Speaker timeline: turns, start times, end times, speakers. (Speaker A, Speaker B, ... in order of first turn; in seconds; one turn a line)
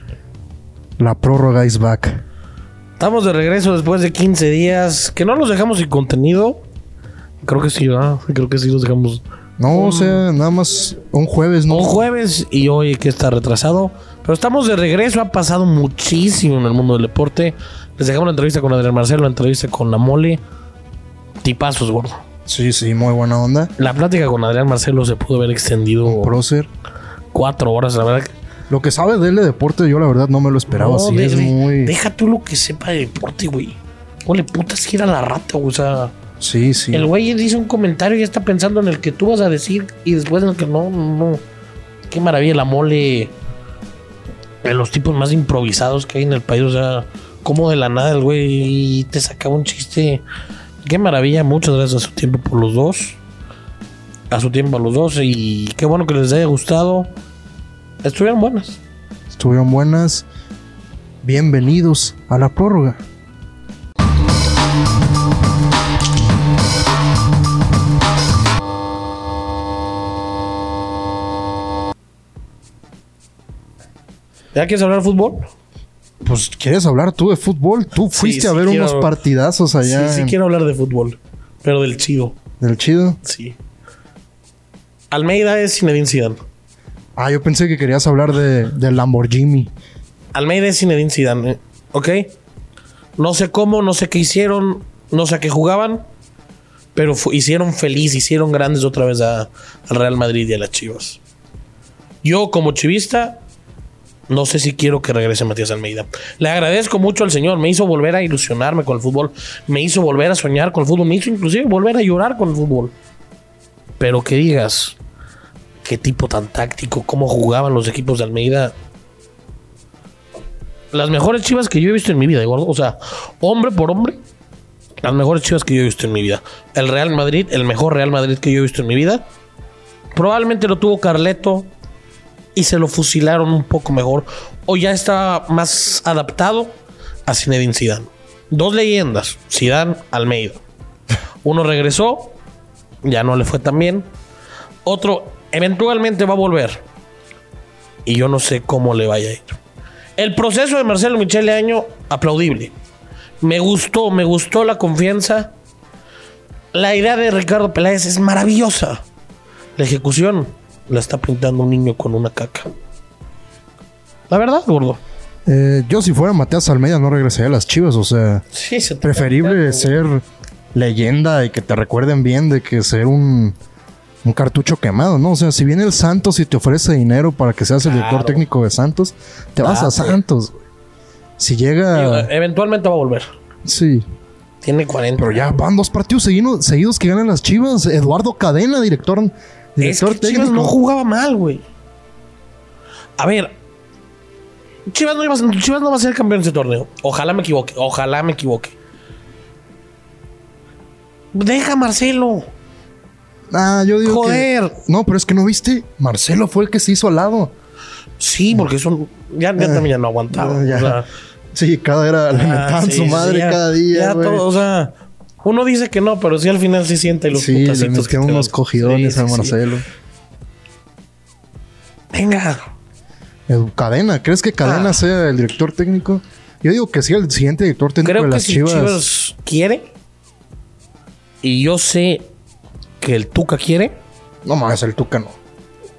Speaker A: 1.0-2.2
Speaker B: 3.0-6.6
Speaker B: 7.4-10.2
Speaker A: 9.6-12.0
Speaker B: 11.7-20.4
Speaker B: 21.4-22.2
Speaker A: 22.5-23.7
Speaker B: 23.8-26.3
Speaker A: 26.0-26.7
Speaker B: 27.3-28.3
Speaker A: 28.7-31.9
Speaker B: 30.7-36.1
Speaker A: 36.4-37.1
Speaker B: 36.9-41.4
Speaker B: 42.1-43.3
Speaker B: 44.6-50.2
Speaker B: 50.8-53.2
Speaker B: 54.3-57.1
Speaker B: 58.0-58.8
Speaker A: 59.3-60.2
Speaker A: 61.2-63.0
Speaker B: 74.5-75.5
Speaker A: 76.2-80.3
Speaker B: 78.1-79.2
Speaker B: 79.8-82.3
Speaker A: 82.6-83.2
Speaker B: 83.2-83.6
Speaker B: 85.1-86.4
Speaker A: 87.2-89.7
Speaker B: 90.3-92.3
Speaker B: 93.2-96.0
Speaker B: 96.9-101.2
Speaker B: 102.2-103.4
Speaker B: 104.3-112.9
Speaker B: 114.0-115.0
Speaker B: 115.8-118.7
Speaker B: 120.9-124.2
Speaker B: 125.0-129.2
Speaker B: 130.2-131.7
Speaker B: 132.5-140.6
Speaker B: 141.4-142.4
Speaker B: 143.0-144.1
Speaker B: 144.8-146.8
Speaker B: 148.1-149.6
Speaker B: 150.2-152.7
Speaker B: 153.4-155.5
Speaker B: 156.7-159.0
Speaker B: 159.8-162.7
Speaker B: 164.3-165.0
Speaker A: 165.4-168.4
Speaker B: 168.5-169.9
Speaker A: 169.0-173.6
Speaker A: 174.2-180.6
Speaker B: 177.8-178.4
Speaker B: 179.6-180.2
Speaker A: 181.4-182.3
Speaker B: 181.9-183.2
Speaker A: 183.6-184.1
Speaker B: 184.6-185.6
Speaker A: 185.2-190.8
Speaker B: 189.8-191.6
Speaker B: 193.2-193.6
Speaker B: 194.9-198.8
Speaker B: 201.3-202.5
Speaker A: 203.5-207.5
Speaker B: 204.0-204.8
Speaker B: 208.2-211.1
Speaker A: 209.6-211.0
Speaker A: 211.5-214.4
Speaker B: 212.3-219.6
Speaker A: 217.3-219.8
Speaker B: 222.1-222.6
Speaker A: 223.5-229.0
Speaker B: 224.6-225.0
Speaker B: 228.0-229.9
Speaker B: 231.4-232.3
Speaker B: 233.0-234.0
Speaker A: 234.4-235.4